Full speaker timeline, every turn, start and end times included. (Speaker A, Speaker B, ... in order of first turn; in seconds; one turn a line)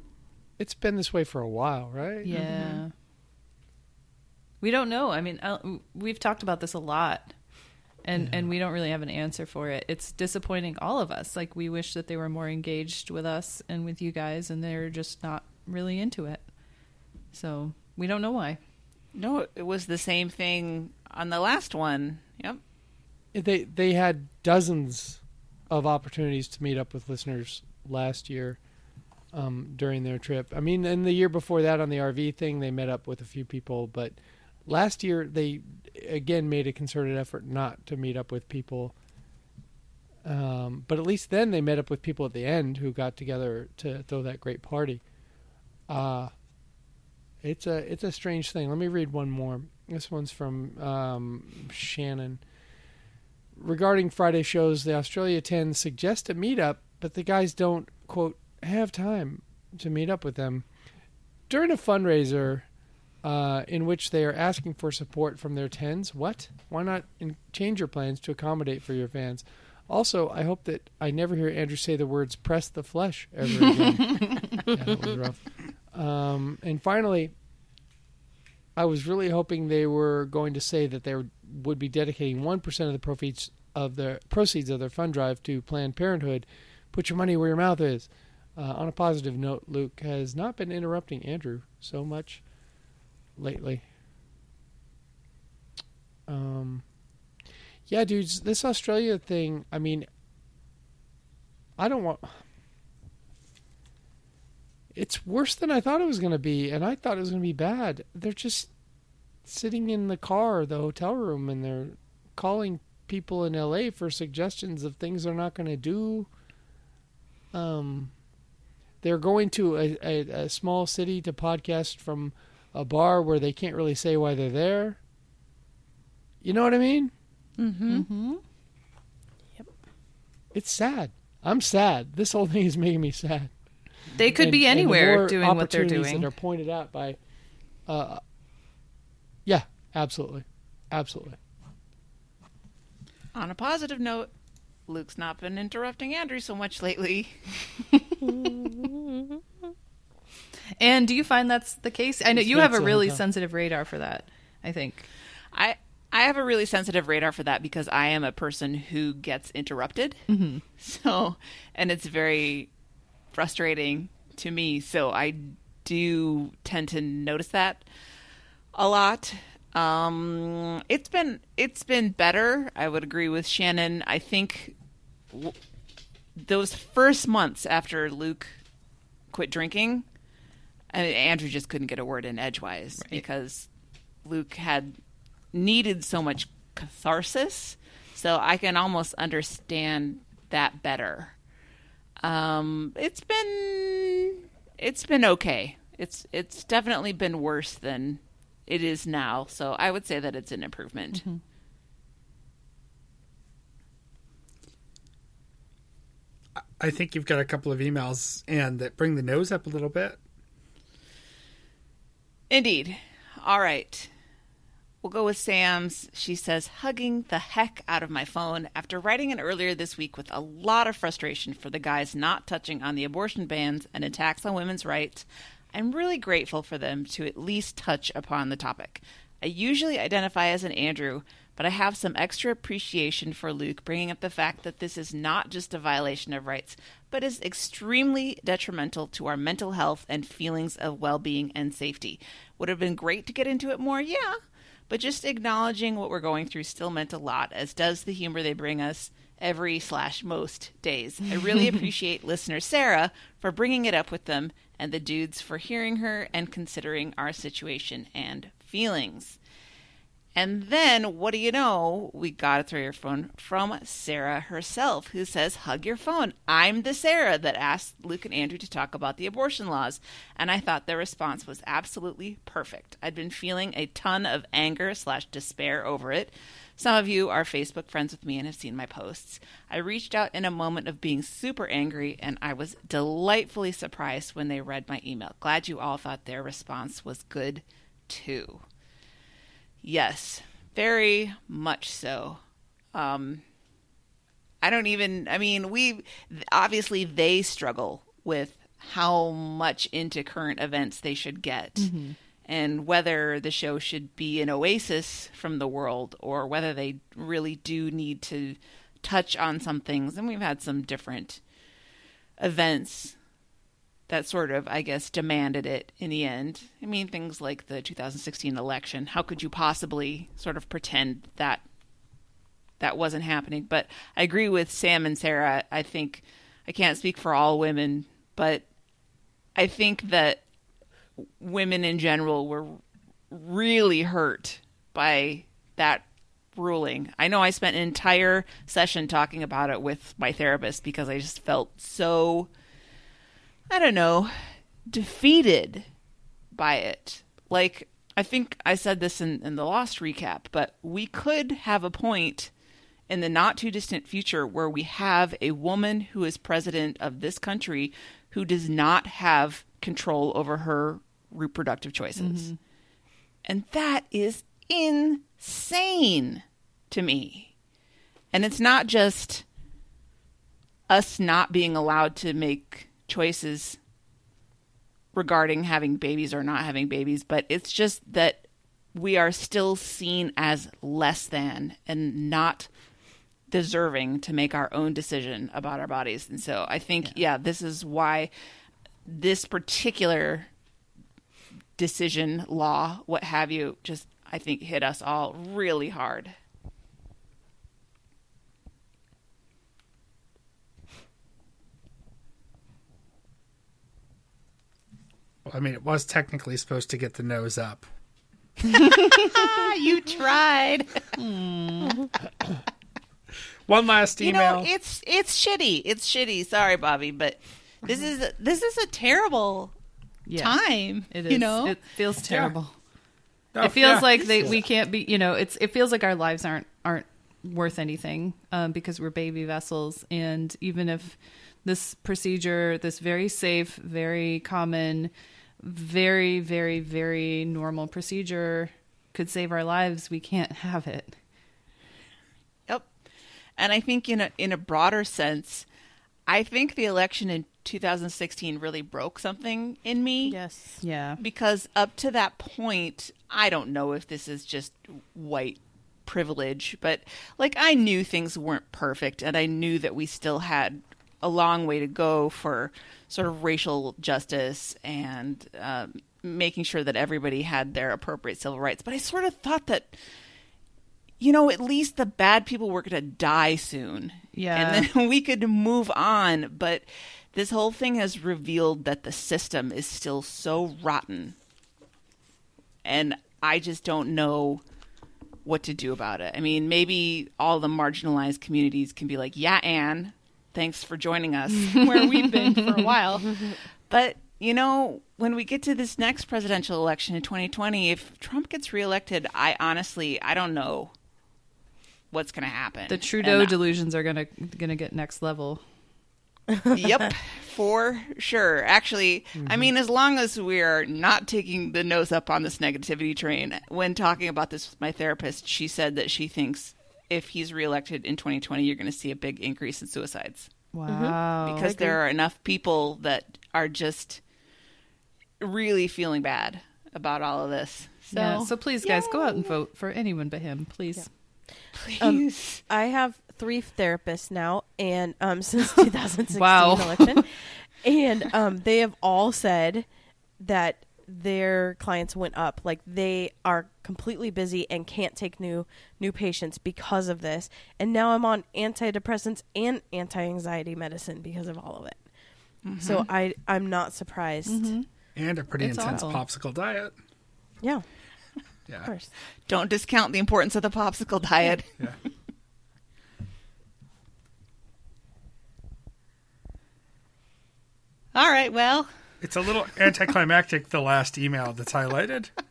Speaker A: 0.6-2.3
Speaker B: 2.2-2.9
Speaker C: 2.3-2.8
Speaker D: 2.4-2.8
Speaker B: 4.6-7.3
Speaker B: 8.0-16.4
Speaker A: 8.1-8.5
Speaker B: 17.3-18.6
Speaker C: 19.1-22.6
Speaker A: 23.3-28.6
Speaker A: 29.3-38.9
Speaker A: 40.2-45.0
Speaker A: 45.9-46.3
Speaker A: 47.4-52.4
Speaker A: 53.5-60.6
Speaker A: 61.5-62.6
Speaker A: 63.2-77.3
Speaker B: 74.1-74.6
Speaker A: 78.8-92.4
Speaker A: 93.4-93.8
Speaker A: 96.3-96.8
Speaker A: 97.9-100.1
Speaker A: 101.8-102.4
Speaker A: 104.9-108.7
Speaker A: 109.4-116.3
Speaker A: 117.5-118.1
Speaker A: 119.0-125.0
Speaker A: 126.4-127.1
Speaker C: 127.6-128.1
Speaker B: 127.8-128.4
Speaker A: 130.5-133.5
Speaker B: 134.2-136.3
Speaker A: 134.3-137.2
Speaker A: 137.9-138.2
Speaker A: 139.4-141.4
Speaker C: 143.3-144.3
Speaker C: 144.9-147.4
Speaker D: 148.2-149.4
Speaker B: 150.8-155.1
Speaker A: 152.3-153.2
Speaker C: 155.5-160.2
Speaker B: 160.3-160.6
Speaker C: 160.8-162.7
Speaker C: 163.3-167.8
Speaker C: 168.7-174.7
Speaker C: 176.4-178.6
Speaker C: 179.3-180.0
Speaker C: 180.9-183.7
Speaker C: 184.2-185.0
Speaker C: 185.5-191.3
Speaker C: 192.2-201.2
Speaker B: 201.1-201.4
Speaker E: 206.8-210.2
Speaker C: 212.5-214.1
Speaker C: 215.0-259.4
Speaker C: 260.3-288.6
Speaker C: 289.8-292.4
Speaker C: 292.9-293.4
Speaker C: 294.6-301.9
Speaker B: 301.8-302.1
Speaker C: 302.4-311.4
Speaker C: 312.4-313.1
Speaker C: 314.1-321.6
Speaker C: 322.8-328.6
Speaker C: 329.5-330.4
Speaker C: 331.2-332.8
Speaker C: 333.3-336.0
Speaker C: 336.6-342.5
Speaker C: 343.7-345.9
Speaker C: 346.5-352.5
Speaker C: 353.1-362.5
Speaker B: 362.2-362.6
Speaker C: 363.4-367.5
Speaker C: 368.3-369.4
Speaker C: 370.9-373.8
Speaker C: 375.1-382.7
Speaker C: 383.5-388.3
Speaker C: 389.1-390.5
Speaker C: 391.8-396.3
Speaker E: 405.4-407.8
Speaker C: 408.7-411.1
Speaker B: 408.9-409.2
Speaker B: 411.1-412.1
Speaker E: 413.7-414.7
Speaker C: 414.2-419.7
Speaker B: 420.2-422.7
Speaker C: 420.4-421.8
Speaker E: 422.3-422.5
Speaker E: 423.5-424.6
Speaker B: 423.6-441.1
Speaker C: 424.1-424.6
Speaker C: 443.6-445.6
Speaker C: 446.3-450.4
Speaker D: 450.2-450.8
Speaker B: 450.8-451.2
Speaker C: 451.2-470.0
Speaker C: 471.2-481.3
Speaker B: 474.3-474.9
Speaker C: 482.8-484.6
Speaker C: 485.4-500.9
Speaker B: 491.5-492.9
Speaker C: 502.1-503.6
Speaker B: 502.9-505.6
Speaker C: 506.7-520.5
Speaker A: 509.4-509.7
Speaker B: 520.7-521.8
Speaker D: 520.9-522.0
Speaker C: 521.4-524.2
Speaker C: 525.4-528.5
Speaker B: 528.1-531.1
Speaker D: 528.8-529.4
Speaker C: 531.7-532.6
Speaker D: 532.0-539.9
Speaker B: 536.3-537.2
Speaker D: 540.4-552.0
Speaker C: 552.6-553.1
Speaker D: 552.8-554.7
Speaker B: 554.5-554.9
Speaker E: 555.1-556.9
Speaker B: 555.6-556.2
Speaker D: 558.8-559.1
Speaker C: 559.5-561.7
Speaker C: 568.1-568.9
Speaker E: 569.2-572.3